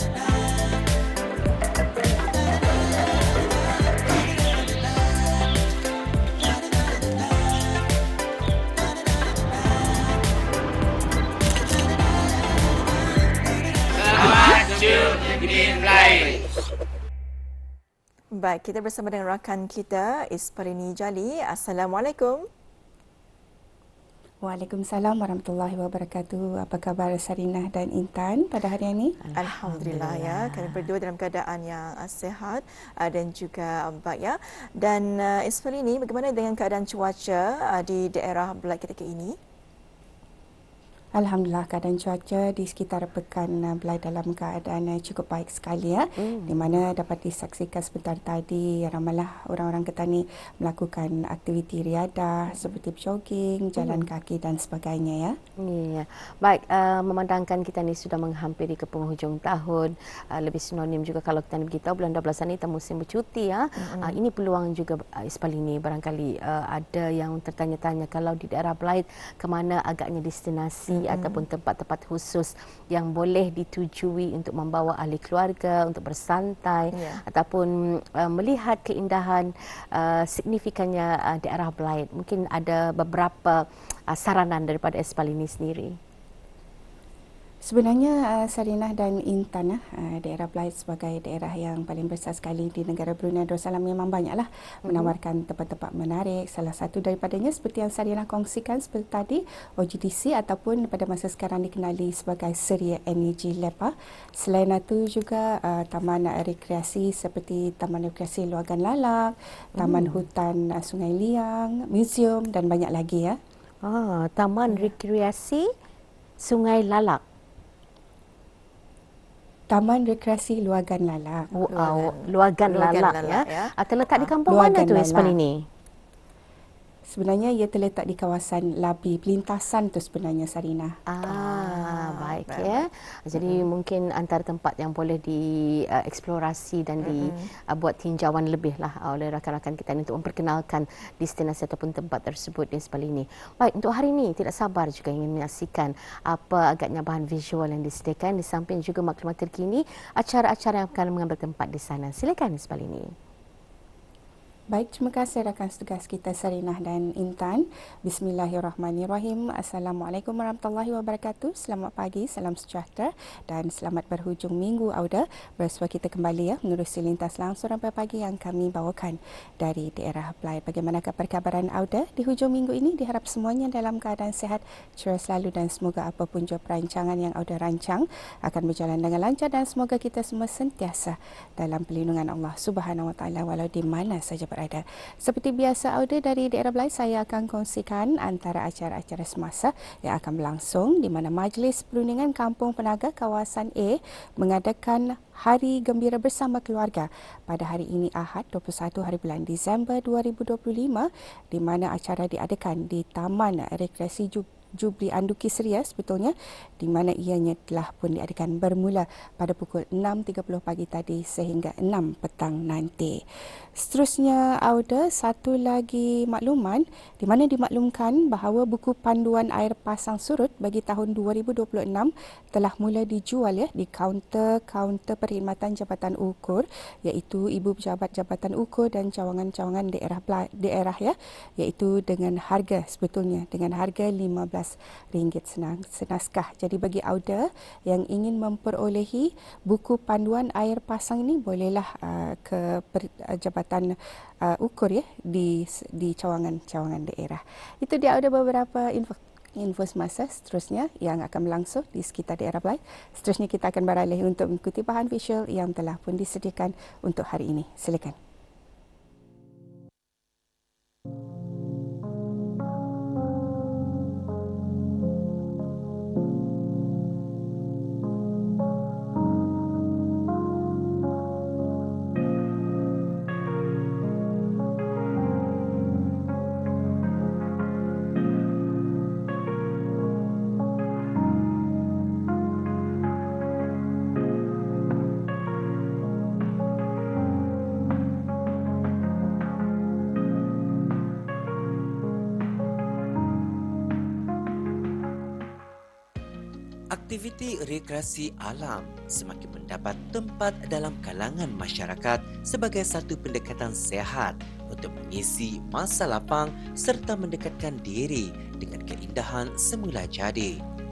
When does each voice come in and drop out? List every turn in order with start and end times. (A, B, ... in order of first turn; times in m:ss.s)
0:14.2-0:16.2 A
0:18.3-0:22.5 A
0:24.4-0:29.2 B
0:29.2-0:30.9 C
0:29.4-0:39.4 A
0:41.2-0:55.4 B
0:46.2-0:46.8 C
0:53.8-0:54.1 C
0:55.6-1:26.0 C
1:03.8-1:04.2 A
1:10.9-1:11.4 A
1:16.9-1:17.2 A
1:27.6-1:53.4 B
1:34.9-1:35.1 C
1:49.8-1:50.2 C
1:53.8-1:55.7 C
1:54.7-1:54.9 B
1:56.4-1:57.2 C
1:59.7-2:01.5 B
2:01.6-2:05.6 C
2:01.7-2:04.3 A
2:04.5-2:05.4 B
2:07.1-2:10.9 B
2:11.1-2:33.1 C
2:11.2-2:12.9 A
2:17.0-2:17.5 A
2:34.7-3:33.2 B
3:33.8-4:03.9 B
4:04.4-4:18.2 B
4:56.9-5:10.6 D